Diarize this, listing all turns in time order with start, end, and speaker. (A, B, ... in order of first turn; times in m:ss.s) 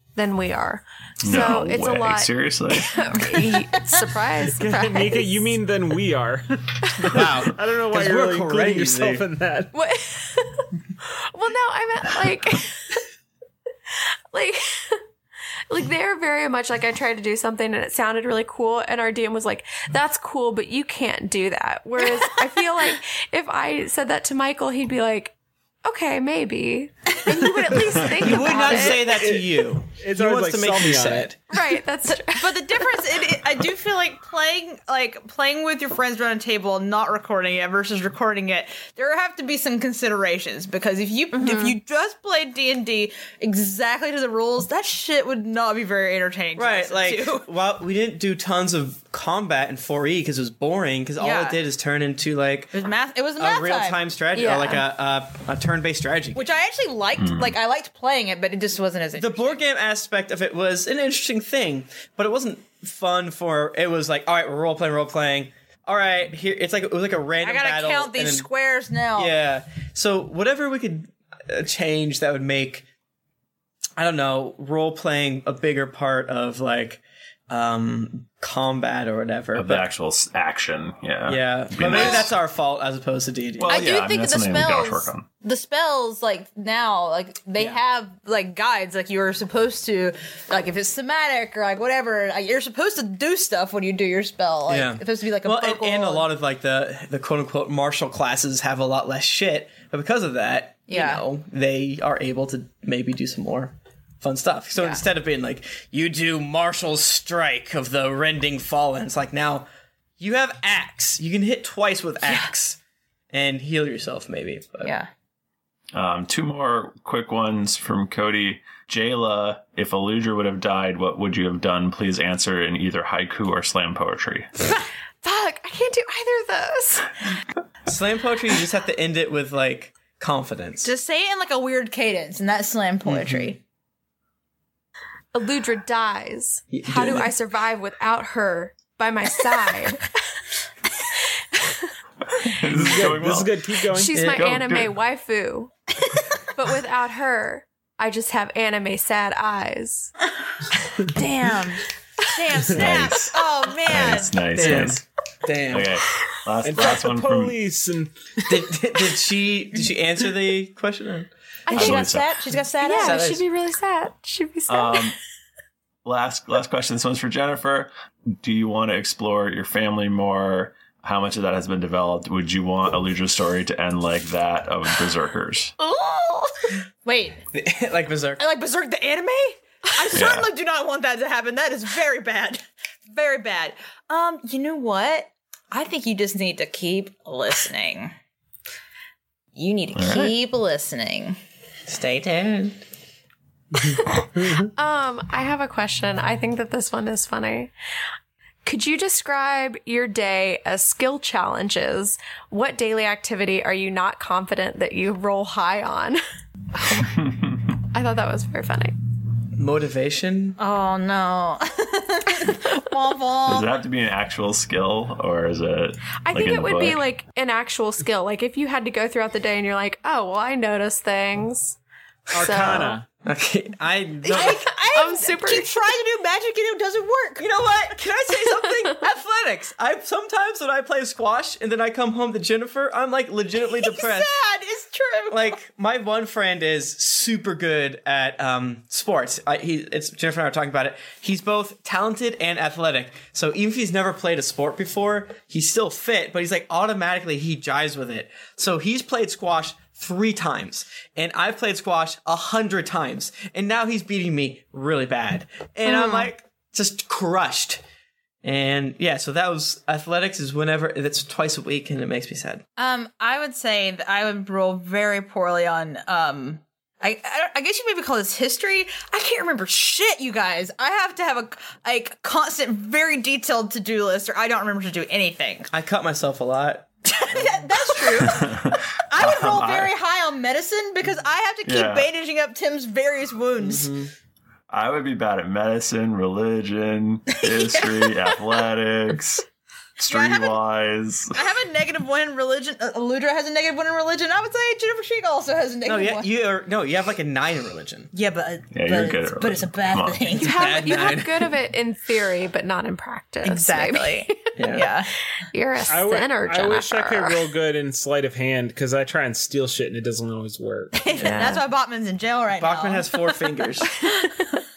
0:00.1-0:05.5 A
0:01.2-0:02.9 B
0:04.5-0:09.7 C
0:07.1-0:09.2 D
0:09.7-0:13.0 A
0:14.3-0:15.0 A
0:15.7-0:29.2 A
0:28.1-0:31.4 D
0:28.3-0:31.3 C
0:31.5-0:33.1 A
0:32.2-0:47.4 E
0:41.3-0:41.8 A
0:46.6-0:52.8 D
0:51.2-0:51.6 E
0:52.7-0:54.0 E
0:53.4-0:56.4 D
0:54.3-0:54.8 A
0:56.3-0:59.6 E
0:57.2-0:57.6 B
0:59.2-1:08.5 D
1:07.4-1:09.4 E
1:09.2-1:12.8 D
1:14.0-1:19.9 D
1:19.5-1:22.4 B
1:21.3-1:23.8 D
1:21.8-1:22.3 E
1:23.6-1:25.2 B
1:23.6-1:36.3 E
1:34.7-1:49.6 D
1:40.9-1:41.2 E
1:44.8-1:45.0 E
1:50.2-1:52.8 D
1:52.2-1:52.5 E
1:53.3-1:54.9 D
1:55.9-2:04.5 B
2:05.2-2:07.1 A
2:07.8-2:10.9 D
2:10.8-2:13.6 E
2:13.0-2:13.6 D
2:15.3-2:20.1 A
2:16.7-2:17.3 D
2:21.5-2:21.9 A
2:22.4-2:23.6 B
2:22.7-2:24.6 C
2:23.9-2:25.7 A
2:24.1-2:24.4 D
2:24.2-2:24.8 B
2:26.5-2:30.1 A
2:31.1-2:34.3 E
2:32.7-2:35.0 B
2:34.5-2:35.9 D
2:35.7-2:37.6 B
2:36.6-2:38.7 C
2:38.5-2:41.3 D
2:41.7-2:42.1 A
2:41.7-2:43.3 E
2:41.7-2:42.4 B
2:42.8-2:45.1 A
2:42.9-2:43.4 D
2:44.7-2:45.2 B
2:46.0-2:55.7 B
2:55.8-2:56.5 A
2:57.0-2:57.4 E
2:57.5-2:58.4 D
2:58.4-3:08.1 E
3:00.1-3:00.5 B
3:09.5-3:11.4 E
3:09.9-3:10.3 B
3:11.9-3:12.8 D
3:13.9-3:17.7 A
3:18.6-3:26.2 A
3:26.7-3:27.1 A
3:27.2-3:27.5 B
3:27.9-3:28.9 A
3:29.6-3:30.6 D
3:30.6-3:33.7 E
3:33.4-3:37.0 B
3:36.2-3:41.8 A
3:42.3-3:43.1 C
3:42.3-3:44.7 D
3:42.3-3:43.0 A
3:44.2-3:45.7 A
3:44.2-3:47.5 E
3:47.4-3:54.3 D
3:48.5-3:49.0 A
3:53.7-3:55.6 E
3:55.3-4:17.8 D
4:15.9-4:16.2 E
4:18.4-4:22.6 D
4:22.8-4:35.7 E
4:35.7-4:38.3 D
4:37.1-4:38.5 E
4:38.3-4:39.9 B
4:39.1-4:43.9 E
4:41.6-4:42.1 B
4:43.6-4:44.1 D
4:44.7-4:49.4 B
4:47.3-4:48.3 E
4:50.0-4:51.4 B
4:50.1-4:50.6 E
4:51.3-4:56.3 E
4:55.8-4:58.1 D
4:58.1-5:01.0 E
4:58.7-5:00.3 B
5:00.3-5:01.5 D
5:00.3-5:04.9 A
5:03.4-5:05.1 E
5:04.6-5:04.9 D
5:05.5-5:07.4 A
5:05.9-5:10.9 C
5:11.0-5:13.4 E
5:11.1-5:11.6 D
5:11.2-5:11.6 A
5:12.6-5:13.9 D